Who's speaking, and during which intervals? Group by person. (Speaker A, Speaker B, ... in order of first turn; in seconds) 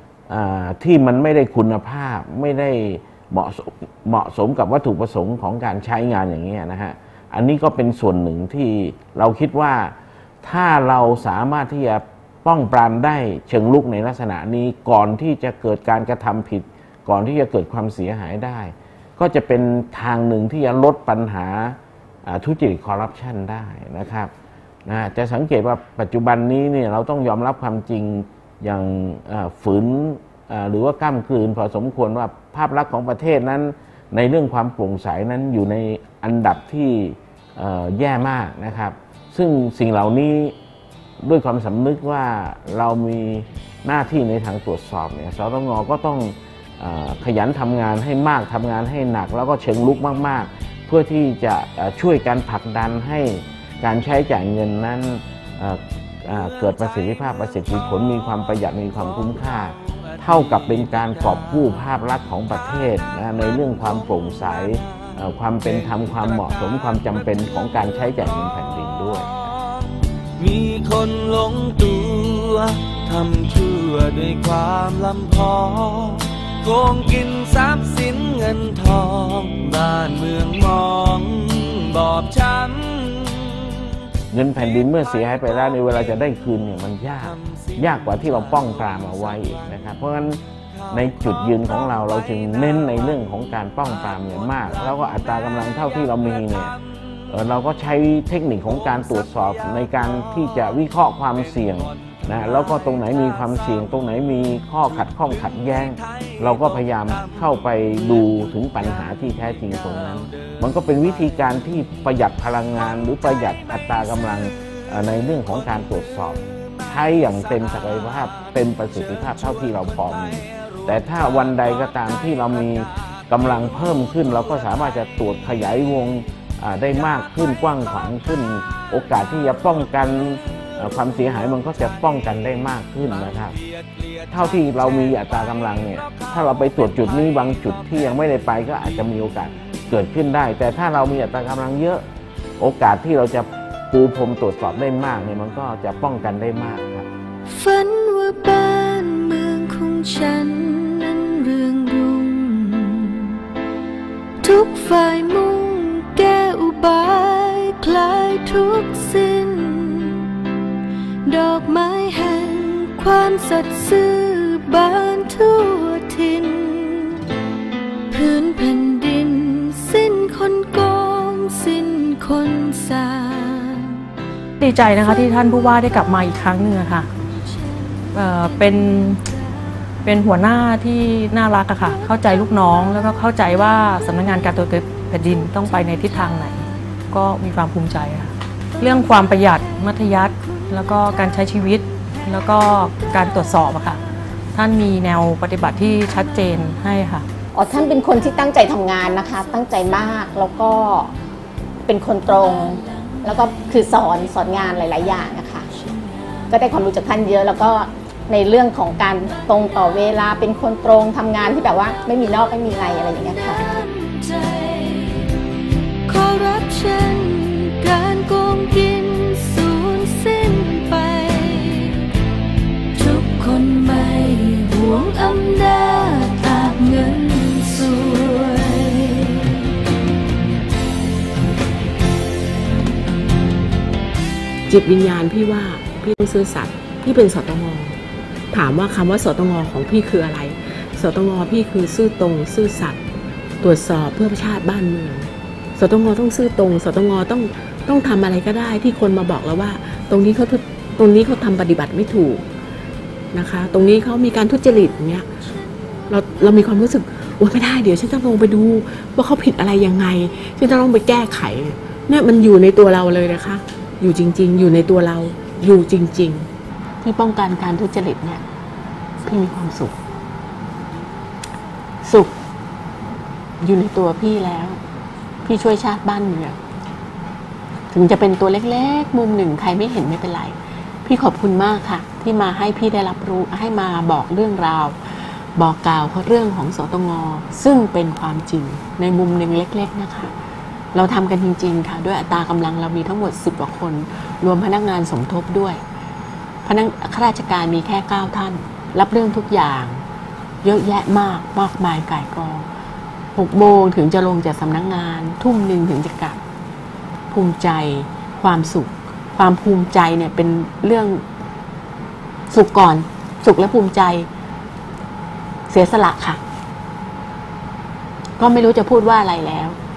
Speaker A: 0.3-24.3, 24.9-40.6, 41.2-69.3, 84.3-96.8, 97.3-133.6, 134.3-142.1, 142.6-147.1
Speaker B: 60.2-61.6, 65.6-66.6, 69.5-69.9, 70.4-83.9, 87.2-89.4, 101.7-102.3, 108.0-108.3, 109.8-110.6, 133.9-134.3, 135.1-135.3
Speaker C: 147.5-153.4, 154.4-160.3, 161.3-167.3, 168.1-174.1, 213.1-215.4, 216.1-222.1, 222.9-229.6
Speaker D: 174.6-177.1, 178.1-179.2, 180.1-194.0, 194.6-197.3
Speaker E: 197.6-201.1, 201.9-205.7, 206.5-213.6
Speaker F: 234.7-238.0, 238.5-243.0, 243.6-252.4, 253.3-255.3, 256.1-266.5, 267.0-268.4, 269.2-269.9, 272.0-272.3, 273.6-274.8, 275.4-276.6, 277.9-290.3, 290.9-295.8, 296.7-300.0, 300.6-302.7, 303.4-306.4, 307.3-311.2, 312.5-314.3, 315.7-316.4, 318.4-319.8